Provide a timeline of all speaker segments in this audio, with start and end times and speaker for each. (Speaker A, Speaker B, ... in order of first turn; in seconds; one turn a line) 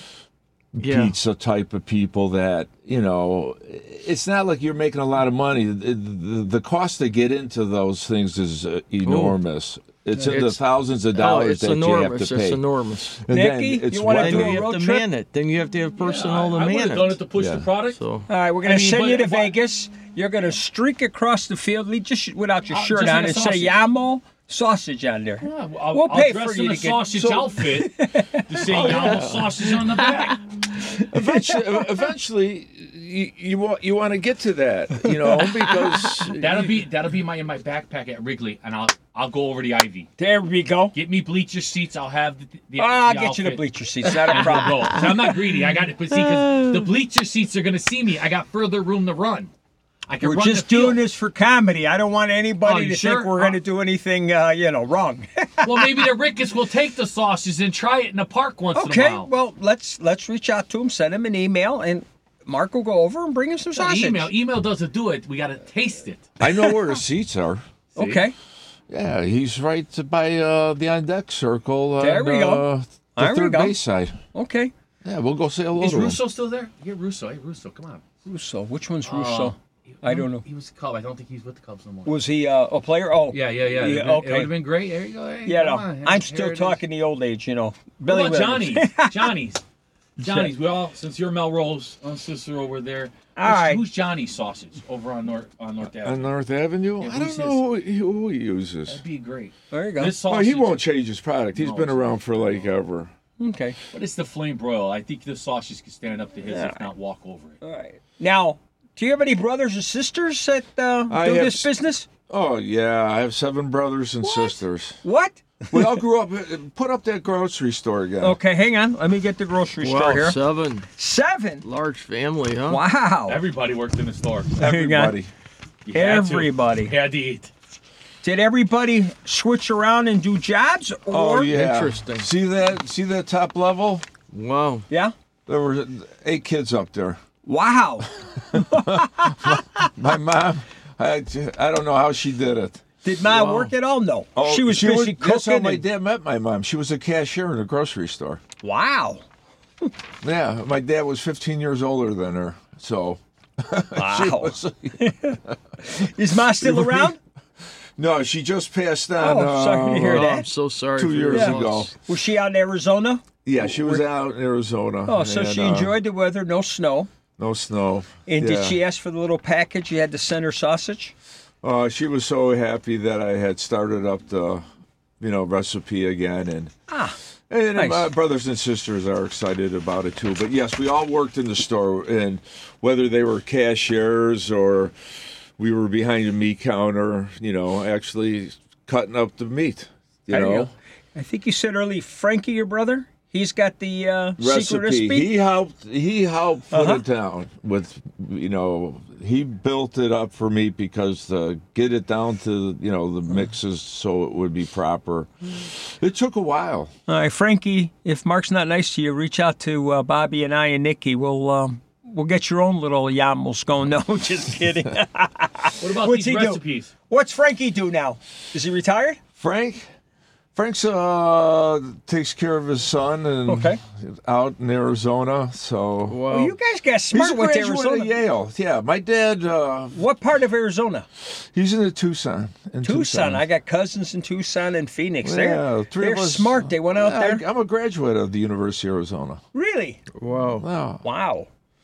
Speaker A: 0.7-12.6
Speaker B: 0.8-1.1
Speaker B: 9.1-9.4
Speaker B: 11.1-13.2
Speaker A: 13.2-14.7
Speaker C: 13.3-15.1
Speaker B: 14.1-17.2
Speaker D: 16.0-18.0
Speaker A: 17.4-17.7
Speaker B: 17.9-18.3
Speaker C: 18.3-28.9
Speaker D: 18.6-19.6
Speaker D: 22.7-23.8
Speaker D: 25.4-30.4
Speaker A: 27.1-27.6
Speaker A: 28.7-29.7
Speaker C: 30.9-31.9
Speaker A: 30.9-36.8
Speaker C: 35.0-35.8
Speaker D: 36.3-40.1
Speaker C: 40.2-40.9
Speaker D: 40.9-49.5
Speaker C: 42.8-45.0
Speaker D: 50.1-51.0
Speaker C: 50.2-55.9
Speaker D: 52.6-53.6
Speaker D: 55.6-59.3
Speaker C: 58.7-64.3
Speaker D: 63.7-66.3
Speaker A: 66.4-67.6
Speaker D: 68.0-68.2
Speaker C: 68.0-68.3
Speaker A: 68.9-74.2
Speaker C: 72.0-73.8
Speaker C: 74.3-74.7
Speaker A: 75.0-76.2
Speaker D: 75.8-78.0
Speaker C: 78.3-80.4
Speaker D: 79.0-82.1
Speaker C: 82.0-84.5
Speaker D: 83.3-86.8
Speaker C: 85.5-89.3
Speaker D: 88.0-89.6
Speaker D: 90.2-96.3
Speaker C: 90.2-90.5
Speaker C: 93.4-93.8
Speaker A: 96.0-99.0
Speaker D: 97.0-97.6
Speaker D: 98.9-100.8
Speaker C: 99.7-100.1
Speaker A: 100.2-103.1
Speaker D: 101.5-102.7
Speaker C: 103.4-103.8
Speaker D: 103.9-107.6
Speaker C: 106.5-106.8
Speaker C: 107.6-112.1
Speaker A: 111.1-111.7
Speaker A: 112.3-115.0
Speaker C: 114.2-116.0
Speaker A: 115.7-118.4
Speaker C: 118.2-120.4
Speaker B: 119.8-120.9
Speaker C: 121.0-121.6
Speaker B: 121.6-122.8
Speaker C: 122.7-123.4
Speaker D: 123.3-124.5
Speaker A: 124.6-125.3
Speaker C: 124.6-125.2
Speaker D: 125.9-127.5
Speaker C: 125.9-126.9
Speaker C: 128.2-131.5
Speaker A: 131.1-134.1
Speaker B: 131.5-132.3
Speaker B: 134.3-134.9
Speaker C: 134.9-135.1
Speaker A: 135.5-137.2
Speaker C: 137.4-139.9
Speaker A: 138.5-143.6
Speaker C: 143.0-145.8
Speaker A: 144.4-148.4
Speaker C: 148.6-149.2
Speaker A: 150.2-155.9
Speaker C: 153.9-157.2
Speaker A: 156.6-157.1
Speaker A: 158.0-160.4
Speaker C: 159.2-160.5
Speaker B: 160.1-161.9
Speaker A: 160.9-161.9
Speaker C: 161.3-164.0
Speaker A: 163.4-165.9
Speaker C: 165.1-167.1
Speaker A: 167.4-168.8
Speaker C: 168.3-171.1
Speaker A: 171.6-174.6
Speaker A: 175.2-176.7
Speaker C: 176.9-177.2
Speaker A: 177.5-184.9
Speaker C: 177.7-178.1
Speaker A: 185.6-190.7
Speaker C: 190.3-195.3
Speaker A: 194.4-206.9
Speaker C: 196.7-197.0
Speaker C: 207.1-219.2
Speaker D: 215.8-216.9
Speaker A: 219.4-219.9
Speaker A: 220.6-226.2
Speaker C: 223.5-223.8
Speaker B: 226.1-226.6
Speaker C: 226.3-228.2
Speaker A: 227.1-230.0
Speaker C: 229.9-231.1
Speaker A: 231.3-233.4
Speaker C: 232.8-237.4
Speaker A: 235.2-239.4
Speaker C: 239.5-240.0
Speaker B: 240.2-240.7
Speaker A: 240.6-241.1
Speaker C: 241.0-241.5